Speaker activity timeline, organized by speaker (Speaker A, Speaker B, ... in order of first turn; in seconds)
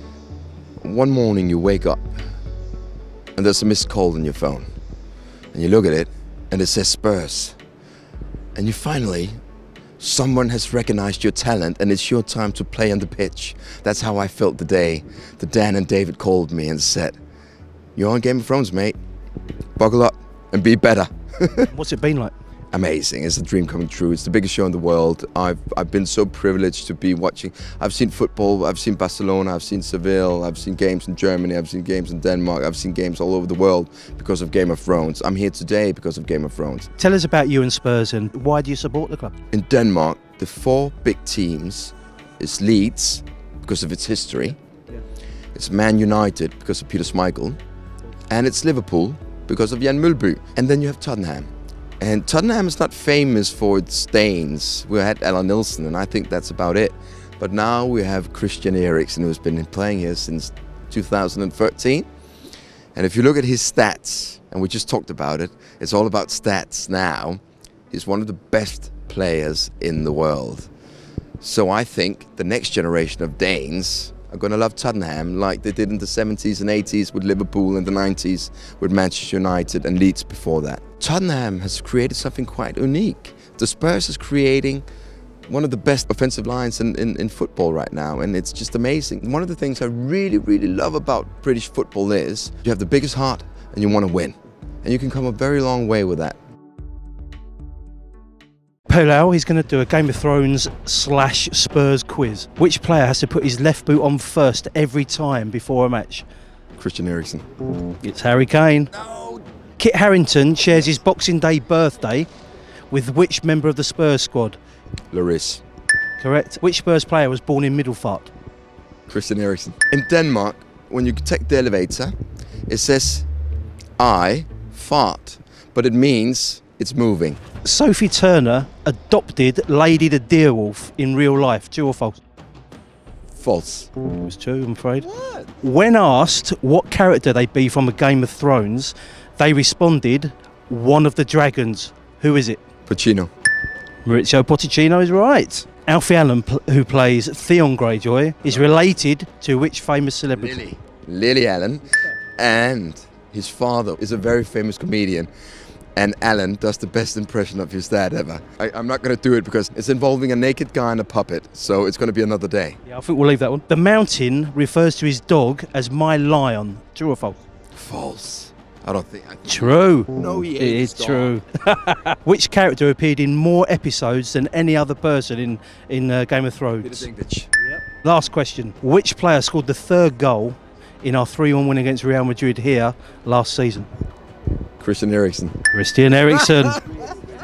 Speaker A: 0.8-2.1, 3.4-4.7, 5.5-7.6, 8.6-9.3, 10.0-17.2, 18.0-19.0, 19.8-21.7, 22.7-36.9, 39.5-44.6, 45.5-47.6, 48.3-51.5, 52.0-62.1, 63.0-70.7, 71.4-84.8, 85.5-96.4, 106.8-107.4, 108.9-109.4, 115.1-115.6, 119.1-122.2, 122.7-123.3, 124.0-127.4, 133.3-133.9, 135.0-135.5, 142.9-143.3, 150.4-155.3, 156.0-162.8, 167.7-171.4, 176.8-177.5, 184.8-185.6, 186.3-186.8
Speaker B: 21.6-22.3, 37.0-39.3, 98.9-106.3, 108.0-108.9, 109.8-112.3, 112.9-114.6, 116.2-118.3, 127.6-132.2, 134.0-135.1, 135.6-142.6, 144.1-150.6, 162.9-167.4, 169.5-177.1, 177.8-183.9, 185.7-186.9